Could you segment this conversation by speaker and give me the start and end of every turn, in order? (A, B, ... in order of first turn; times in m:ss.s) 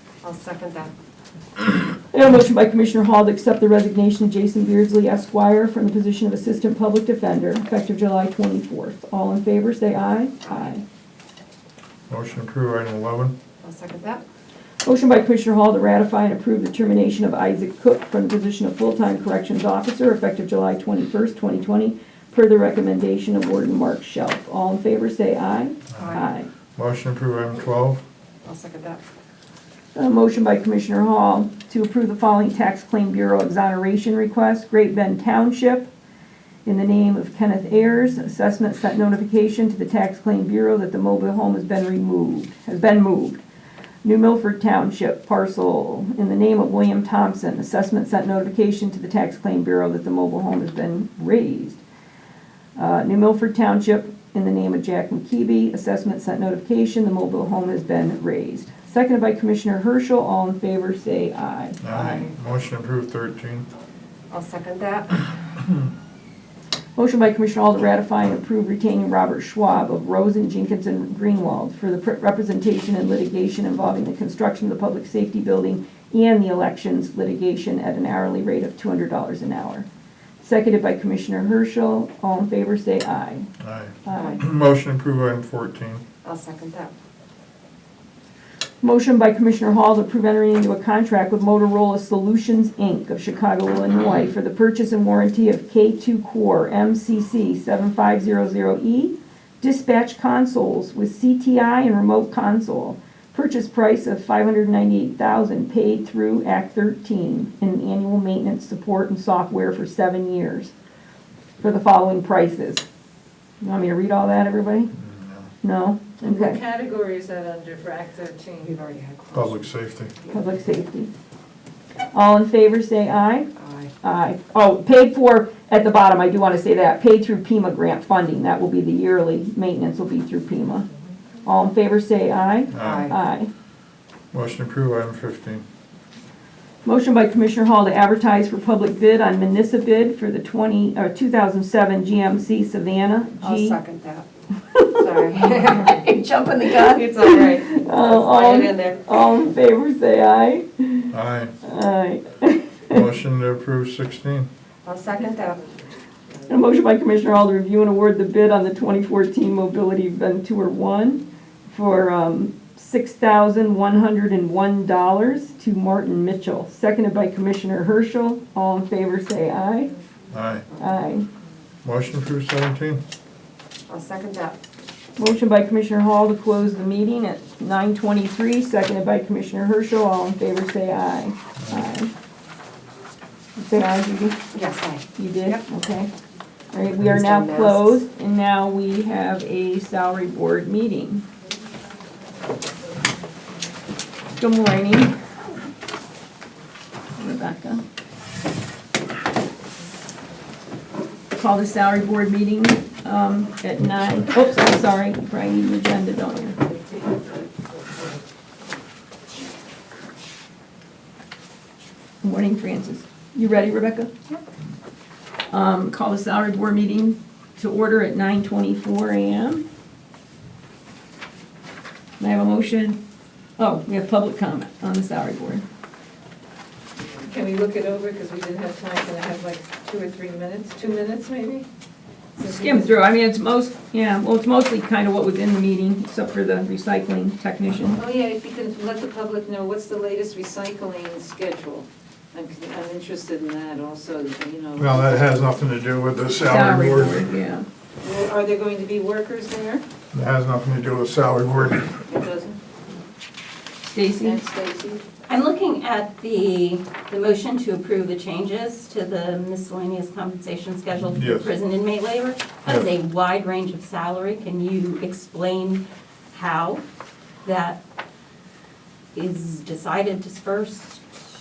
0:00.2-0:00.9 A
0:02.1-0:10.8 B
0:12.1-0:13.3 C
0:13.6-0:14.2 A
0:14.8-0:26.5 B
0:26.0-0:26.3 A
0:26.8-0:28.0 C
0:28.4-0:29.0 A
0:29.9-0:35.9 B
0:36.6-0:43.4 B
0:44.0-0:51.8 B
0:52.8-1:02.3 B
1:01.8-1:03.7 C
1:04.3-1:05.4 A
1:07.0-1:19.8 B
1:20.4-1:23.5 B
1:23.6-1:26.0 C
1:24.0-1:24.4 B
1:26.2-1:26.9 A
1:28.8-1:50.7 B
1:51.6-1:52.8 B
1:53.6-1:54.9 B
1:54.9-1:55.5 C
1:55.6-1:56.6 B
1:56.3-1:56.6 A
1:56.3-1:58.8 D
1:58.7-1:59.6 A
1:59.3-2:00.1 C
2:00.3-2:01.1 B
2:02.1-2:03.5 B
2:03.6-2:03.9 A
2:04.0-2:10.9 B
2:11.4-2:13.5 B
2:12.7-2:13.1 C
2:12.8-2:13.2 A
2:14.3-2:15.6 C
2:16.8-2:23.8 B
2:23.4-2:24.3 A
2:24.8-2:26.0 A
2:25.3-2:33.0 B
2:26.7-2:29.0 A
2:31.1-2:31.5 C
2:32.9-2:34.5 C
2:34.8-2:35.7 A
2:36.5-2:49.9 B
2:50.3-2:50.6 C
2:50.8-2:51.2 B
2:51.8-2:53.0 C
2:53.9-2:54.6 A
2:55.2-3:02.1 B
3:03.6-3:04.4 B
3:04.5-3:05.6 A
3:05.1-3:06.1 B
3:06.7-3:11.2 B
3:07.0-3:08.0 A
3:14.4-3:15.1 B
3:17.2-3:17.8 B
3:21.3-3:26.6 B
3:32.2-3:34.1 B
3:35.5-3:39.6 B
3:42.2-3:43.0 B
3:43.6-3:45.6 B
3:47.0-3:51.6 D
3:52.4-3:52.8 D
3:52.5-3:58.0 B
3:58.0-4:05.1 D
4:04.8-4:07.2 C
4:06.4-4:07.6 B
4:08.0-4:09.8 D
4:10.1-4:12.0 C
4:12.1-4:12.6 D
4:13.9-4:14.4 B
4:14.2-4:15.0 D
4:15.3-4:26.8 E
4:21.0-4:21.5 C
4:27.4-4:27.8 E
4:29.1-4:31.0 E